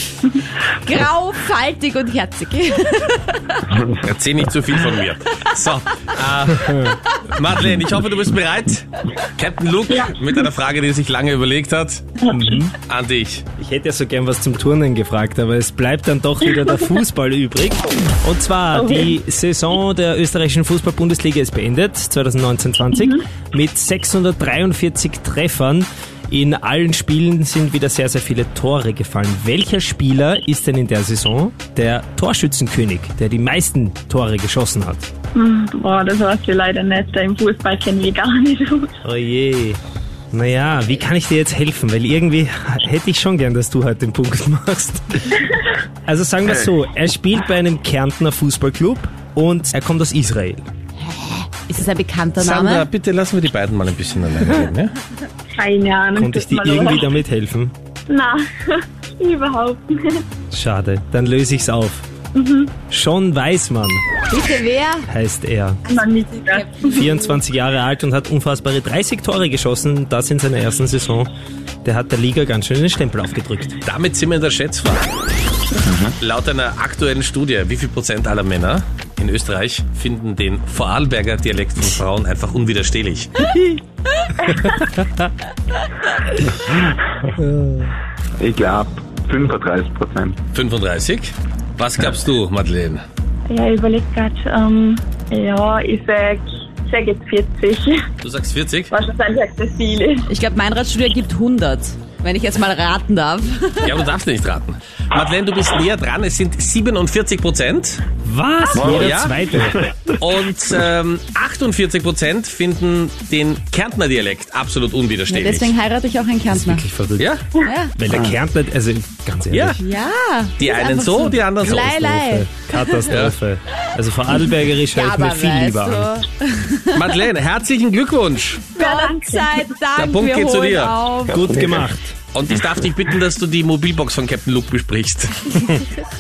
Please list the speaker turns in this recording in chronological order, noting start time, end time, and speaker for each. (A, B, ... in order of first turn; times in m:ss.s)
0:00.7-0:03.7 A
0:03.8-0:04.0 B
0:04.0-0:12.0 C
0:09.9-0:10.4 D
0:12.2-0:12.5 D
0:12.3-0:12.7 E
0:12.9-0:13.4 C
0:13.6-0:35.1 E
0:18.8-0:19.1 D
0:35.3-0:38.9 D
0:39.0-0:39.8 E
0:40.3-0:45.5 E
0:46.0-0:50.7 E
0:51.1-0:52.9 A
0:52.4-0:54.9 C
0:55.5-0:57.1 D
0:56.2-0:57.7 E
0:58.1-1:00.2 D
1:00.5-1:02.0 E
1:02.3-1:02.7 D
1:02.9-1:04.0 E
1:04.3-1:05.1 A
1:05.0-1:05.8 E
1:05.9-1:07.0 D
1:05.9-1:07.4 A
1:06.9-1:11.3 E
1:11.8-1:13.8 E
1:13.8-1:15.1 C
1:15.8-1:16.1 B
1:16.2-1:23.3 C
1:24.5-1:25.3 E
1:27.4-1:27.9 E
1:28.4-1:30.4 B
1:30.5-1:33.0 C
1:33.5-1:38.0 D
1:38.2-1:38.9 C
1:38.9-1:40.3 D
1:40.3-1:43.9 A
1:43.8-1:48.0 C
1:48.2-1:49.8 E
1:48.7-1:50.2 B
1:48.9-1:49.3 C
1:50.2-1:55.7 C
1:55.3-1:56.8 A
1:56.5-1:57.3 E
1:57.2-1:57.4 C
1:57.6-1:57.9 A
1:57.9-1:59.8 E
1:58.1-1:58.4 B
1:59.5-1:59.8 C
1:59.8-2:02.8 A
2:00.6-2:02.0 C
2:01.6-2:06.1 E
2:03.1-2:03.3 C
2:04.9-2:07.0 A
2:06.9-2:08.6 C
2:08.7-2:09.7 D
2:08.8-2:11.6 A
2:10.0-2:10.9 C
2:11.3-2:11.9 B
2:11.3-2:12.2 E
2:12.3-2:15.7 C
2:12.5-2:12.8 B